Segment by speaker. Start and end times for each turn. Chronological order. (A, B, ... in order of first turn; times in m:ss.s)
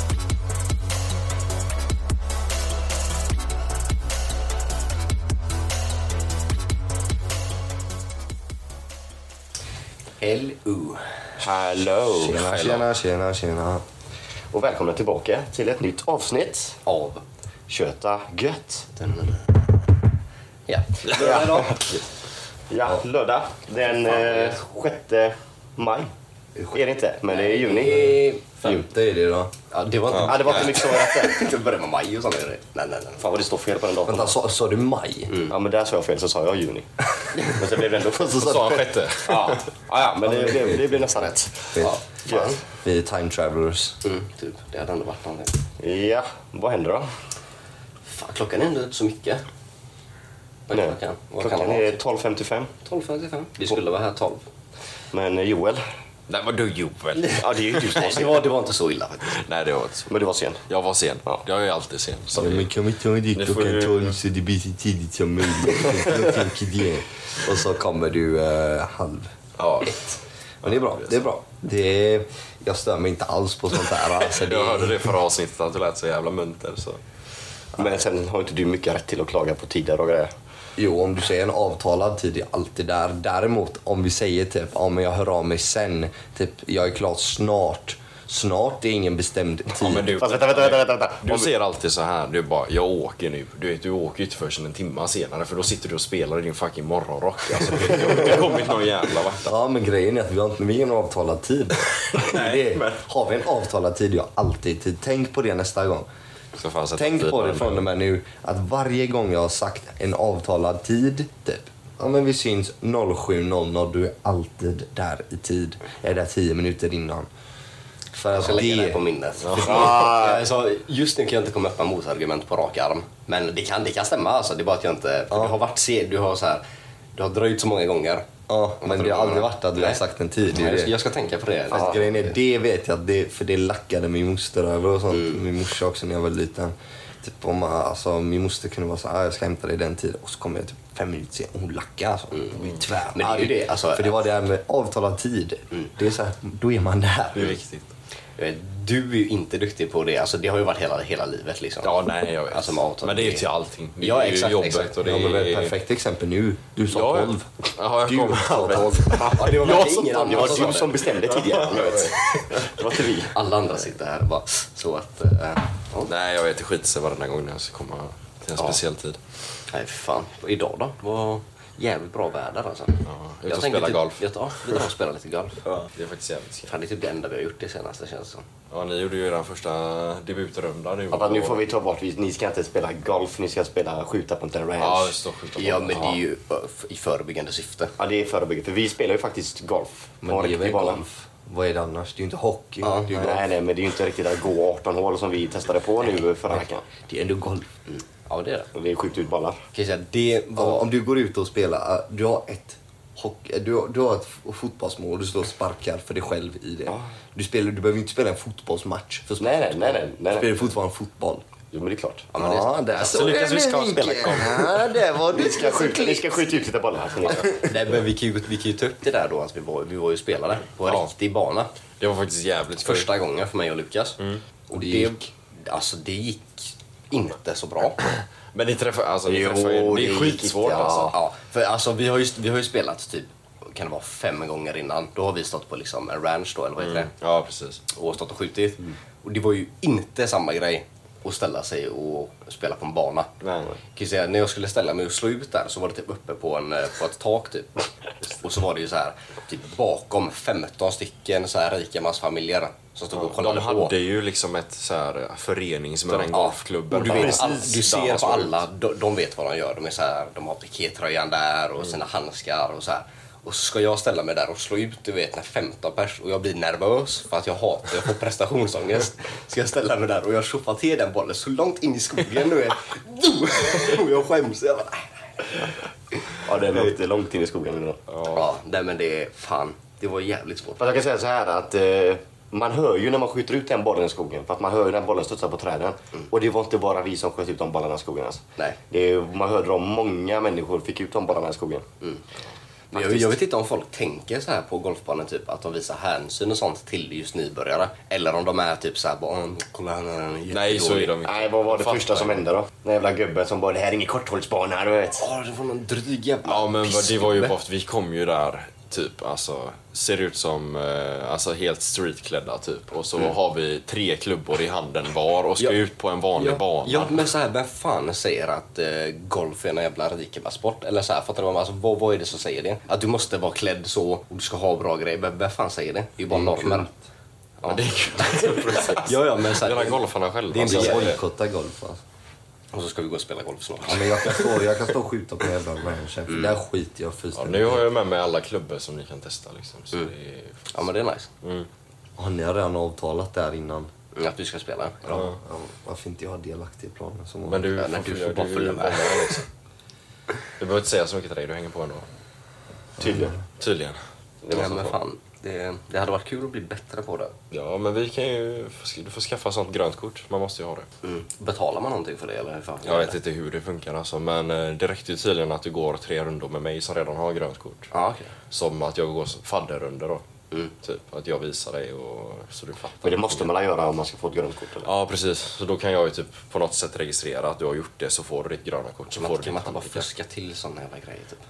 0:10.2-0:11.0 A
0:11.4-0:12.8 B
0:12.1-0:13.8 C
0:14.5-0:16.8 B
0:16.9-0:17.2 A
0:17.7-0:19.0 B
0:19.1-0:19.4 A
0:20.7-0:22.0 A
0:21.1-0:21.8 B
0:22.7-0:26.1 B
0:24.0-0:24.6 A
0:26.7-0:28.9 B
0:27.3-0:28.5 A
0:28.6-0:29.5 C
0:29.7-0:33.3 A
0:30.1-0:30.6 D
0:30.2-0:31.3 B
0:33.2-0:34.4 B
0:34.0-0:35.3 C
0:35.5-0:38.5 B
0:38.2-0:38.9 C
0:38.3-0:39.7 D
0:39.3-0:42.6 B
0:40.2-0:41.0 A
0:40.4-0:40.8 C
0:41.7-0:44.0 C
0:44.0-0:45.6 A
0:45.8-0:47.1 B
0:48.0-0:49.4 A
0:50.7-0:52.0 A
0:50.7-0:52.7 B
0:52.8-0:54.4 A
0:55.1-0:55.8 B
0:56.3-0:58.1 D
0:57.3-0:58.5 B
0:57.8-0:59.4 A
0:59.2-1:00.1 D
1:00.1-1:00.6 B
1:00.7-1:02.7 D
1:02.3-1:09.3 C
1:03.3-1:04.2 D
1:09.6-1:11.2 D
1:10.6-1:15.1 C
1:14.3-1:17.0 D
1:17.8-1:20.3 B
1:20.8-1:30.1 C
1:29.8-1:39.5 D
1:30.2-1:31.5 B
1:39.4-1:46.1 C
1:42.0-1:43.0 D
1:46.6-1:47.9 D
1:47.0-1:57.3 C
1:58.1-1:59.0 C
1:58.3-2:06.6 A
1:59.4-2:00.0 D
1:59.6-2:00.4 B
2:07.2-2:08.3 A
2:08.5-2:10.9 C
2:08.8-2:12.4 A
2:11.7-2:27.6 C
2:23.2-2:24.2 A
2:27.3-2:27.9 D
2:28.4-2:33.5 A
2:31.8-2:35.8 D
2:34.0-2:35.0 A
2:35.0-2:37.5 C
2:36.9-2:42.7 D
2:38.0-2:39.3 C
2:39.1-2:41.2 A
2:39.6-2:43.4 B
2:43.3-2:46.1 A
2:46.0-2:49.2 D
2:49.7-2:55.8 A
2:53.0-2:54.2 D
2:55.9-2:56.7 D
2:56.7-2:58.4 A
2:58.7-3:01.7 D
3:01.1-3:05.2 B
3:04.8-3:06.2 D
3:05.6-3:07.9 A
3:08.0-3:11.0 B
3:10.2-3:13.5 C
3:12.8-3:13.2 A
3:13.2-3:16.8 B
3:16.5-3:17.7 C
3:18.3-3:18.7 A
3:18.8-3:19.6 B
3:19.7-3:20.8 A
3:20.6-3:31.4 C
3:29.4-3:30.6 B
3:31.7-3:32.3 B
3:32.3-3:33.5 A
3:32.4-3:36.4 C
3:33.0-3:34.7 D
3:34.2-3:34.5 A
3:35.3-3:37.6 B
3:37.3-3:37.6 C
3:37.5-3:41.7 A
3:40.8-3:41.1 D
3:42.0-3:43.1 D
3:42.8-3:44.2 A
3:44.7-3:45.2 C
3:44.7-3:48.0 A
3:48.1-3:51.2 D
3:49.3-3:51.2 B
3:51.1-3:57.1 A
3:56.8-3:57.8 D
3:57.9-4:03.3 A
4:03.4-4:03.7 D
4:04.0-4:14.0 A
4:13.1-4:18.6 D
4:16.1-4:35.6 A
4:36.4-4:38.0 B
4:38.1-4:38.5 D
4:38.3-4:41.0 A
4:40.8-4:51.8 B
4:52.9-5:01.2 A
5:00.5-5:02.4 D
5:01.2-5:05.2 B
5:05.2-5:07.6 A
5:06.4-5:17.2 D
5:16.4-5:26.9 A
5:26.3-5:27.0 C
5:27.6-5:31.2 A
5:27.6-5:31.2 D
5:30.6-5:32.0 C
5:32.7-5:34.8 A
5:33.8-5:37.9 C
5:36.3-5:36.5 A
5:37.4-5:40.7 D
5:40.7-5:41.3 A
5:41.4-5:41.7 D
5:42.2-5:43.9 C
5:44.1-5:45.2 A
5:45.0-5:47.7 C
5:45.1-5:45.4 D
5:47.4-5:49.5 D
5:47.8-5:49.4 A
5:50.6-5:52.0 D
5:53.0-5:53.4 B
5:53.0-5:53.3 C
5:53.6-5:55.0 D
5:54.5-5:57.3 A
5:57.5-6:00.9 D
6:01.0-6:03.2 A
6:02.8-6:07.9 D
6:07.9-6:08.3 A
6:08.5-6:10.2 D
6:10.8-6:13.5 D
6:13.0-6:14.9 B
6:14.8-6:20.1 D
6:19.1-6:21.4 A